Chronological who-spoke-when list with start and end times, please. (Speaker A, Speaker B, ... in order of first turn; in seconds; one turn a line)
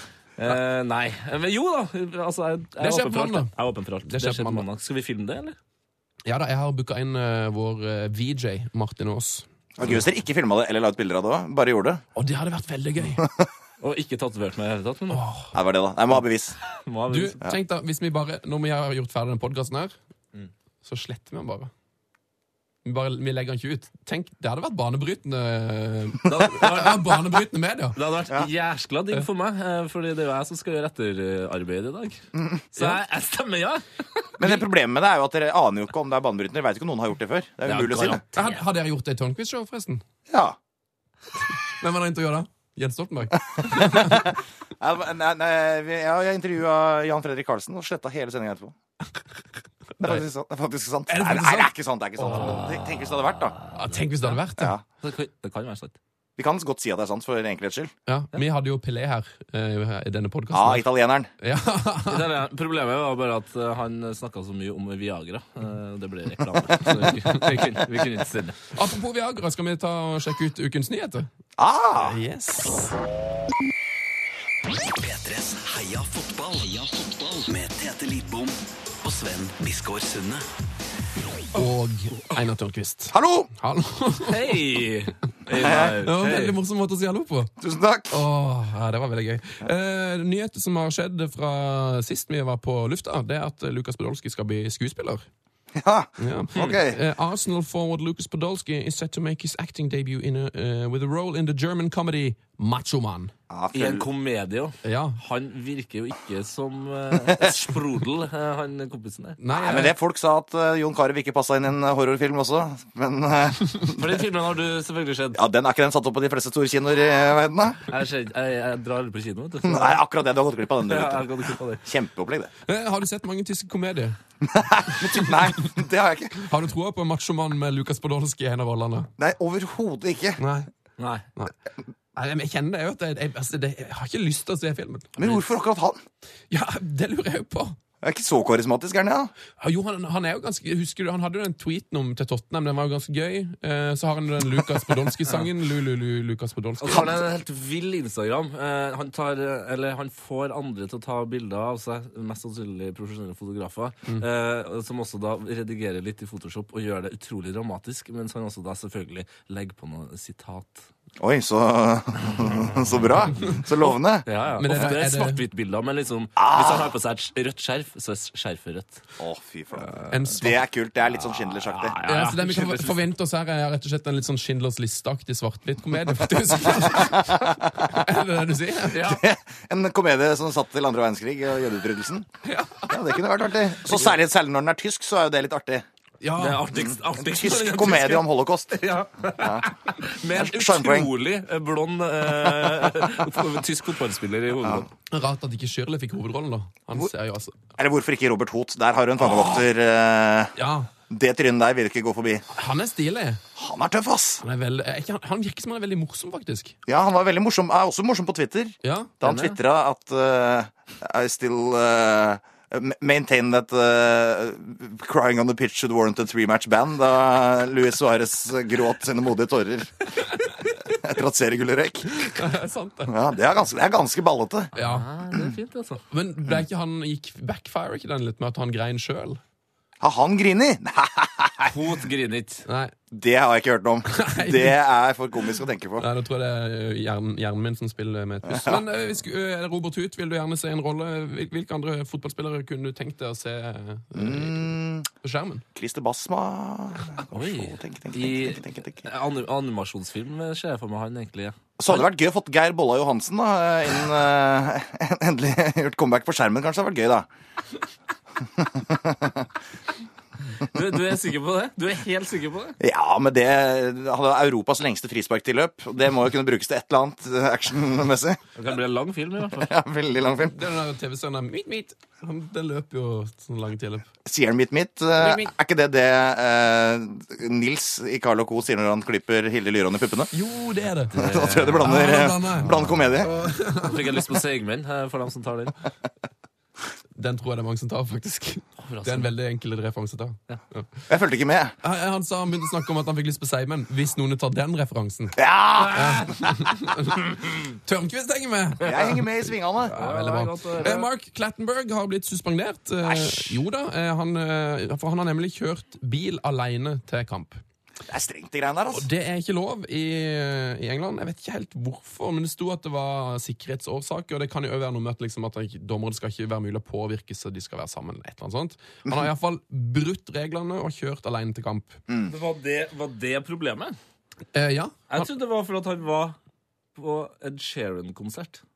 Speaker A: 0.4-5.6
Speaker B: 2.8-3.5
Speaker B: 4.0-4.7
Speaker B: 6.2-9.5
Speaker C: 9.8-12.0
Speaker B: 12.2-13.2
Speaker C: 13.2-13.5
Speaker A: 13.8-15.3
Speaker B: 15.1-15.6
Speaker C: 15.5-16.6
Speaker A: 16.8-17.4
Speaker B: 17.1-19.9
Speaker B: 20.8-21.7
Speaker B: 22.9-28.0
Speaker A: 26.3-27.1
Speaker A: 27.9-34.2
Speaker C: 32.4-32.6
Speaker C: 34.4-38.2
Speaker B: 34.4-34.7
Speaker A: 37.6-38.6
Speaker B: 38.3-40.0
Speaker C: 40.3-40.6
Speaker B: 41.8-44.3
Speaker C: 43.6-48.8
Speaker B: 50.0-50.2
Speaker C: 50.0-53.6
Speaker B: 51.1-52.7
Speaker A: 52.4-52.9
Speaker A: 53.6-54.4
Speaker B: 53.7-54.8
Speaker C: 54.6-54.8
Speaker A: 55.0-56.0
Speaker C: 56.4-57.9
Speaker B: 58.1-60.9
Speaker C: 60.5-61.3
Speaker B: 61.4-62.3
Speaker A: 62.1-68.6
Speaker C: 66.7-67.0
Speaker B: 68.7-71.3
Speaker C: 71.6-72.2
Speaker B: 72.0-73.0
Speaker D: 74.8-80.5
Speaker B: 81.5-84.5
Speaker C: 83.1-83.5
Speaker A: 84.2-86.6
Speaker C: 85.6-86.0
Speaker B: 85.7-87.5
Speaker C: 87.6-88.2
Speaker B: 88.1-95.3
Speaker C: 95.8-97.0
Speaker B: 96.2-103.3
Speaker C: 103.5-104.1
Speaker A: 103.7-109.4
Speaker B: 104.8-105.2
Speaker B: 109.4-110.0
Speaker C: 109.5-114.1
Speaker A: 113.9-115.4
Speaker C: 115.3-117.8
Speaker A: 117.9-120.0
Speaker C: 119.6-121.3
Speaker A: 120.8-121.8
Speaker C: 121.8-122.5
Speaker B: 122.7-124.2
Speaker C: 124.4-126.4
Speaker B: 125.0-125.5
Speaker B: 126.4-129.1
Speaker C: 129.2-130.4
Speaker B: 130.4-130.7
Speaker A: 131.0-131.3
Speaker B: 132.2-135.4
Speaker C: 135.2-136.0
Speaker B: 136.5-137.8
Speaker C: 138.0-139.3
Speaker B: 139.6-147.2
Speaker A: 146.8-160.9
Speaker C: 161.2-164.3
Speaker A: 164.2-169.0
Speaker B: 164.6-165.4
Speaker C: 166.4-166.9
Speaker C: 169.2-172.0
Speaker A: 169.8-170.2
Speaker B: 170.1-170.7
Speaker A: 171.1-173.0
Speaker B: 172.0-179.2
Speaker C: 176.9-177.9
Speaker A: 178.9-179.2
Speaker C: 179.0-182.3
Speaker B: 182.4-183.2
Speaker C: 182.9-185.8
Speaker B: 186.2-186.7
Speaker A: 186.4-194.9
Speaker C: 186.7-188.8
Speaker C: 189.4-189.7
Speaker C: 190.3-191.1
Speaker B: 195.1-197.6
Speaker C: 197.8-200.6
Speaker B: 200.6-200.9
Speaker C: 201.1-202.4
Speaker B: 202.5-203.4
Speaker C: 203.6-204.4
Speaker B: 204.4-206.8
Speaker C: 206.9-222.3
Speaker B: 208.8-209.4
Speaker A: 209.2-209.6
Speaker B: 222.2-223.1
Speaker C: 223.1-224.7
Speaker B: 224.8-225.1
Speaker A: 224.8-226.0
Speaker B: 226.1-229.4
Speaker C: 230.0-231.7
Speaker A: 231.7-232.7
Speaker B: 232.7-232.9
Speaker C: 233.1-236.1
Speaker B: 234.1-234.8
Speaker B: 236.0-245.7
Speaker C: 238.5-238.8
Speaker C: 244.2-245.1
Speaker C: 245.8-249.0
Speaker A: 247.3-252.0
Speaker C: 251.8-257.3
Speaker C: 258.6-259.4
Speaker A: 260.7-262.8
Speaker C: 262.8-268.4
Speaker A: 268.6-269.7
Speaker C: 269.6-270.6
Speaker B: 270.4-274.1
Speaker C: 274.2-280.3
Speaker B: 275.2-275.5
Speaker B: 280.3-284.3
Speaker A: 281.1-282.1
Speaker C: 281.2-283.3
Speaker A: 283.8-285.8
Speaker B: 287.2-291.1
Speaker A: 288.8-289.3
Speaker C: 291.1-291.8
Speaker B: 291.8-307.6
Speaker C: 295.4-296.3
Speaker A: 295.8-296.4
Speaker C: 298.8-299.9
Speaker A: 299.9-301.1
Speaker C: 303.0-303.6
Speaker C: 308.1-309.1
Speaker B: 308.9-322.0
Speaker C: 322.1-322.3
Speaker A: 322.3-323.9
Speaker B: 324.5-325.3
Speaker A: 325.1-326.4
Speaker A: 326.9-328.6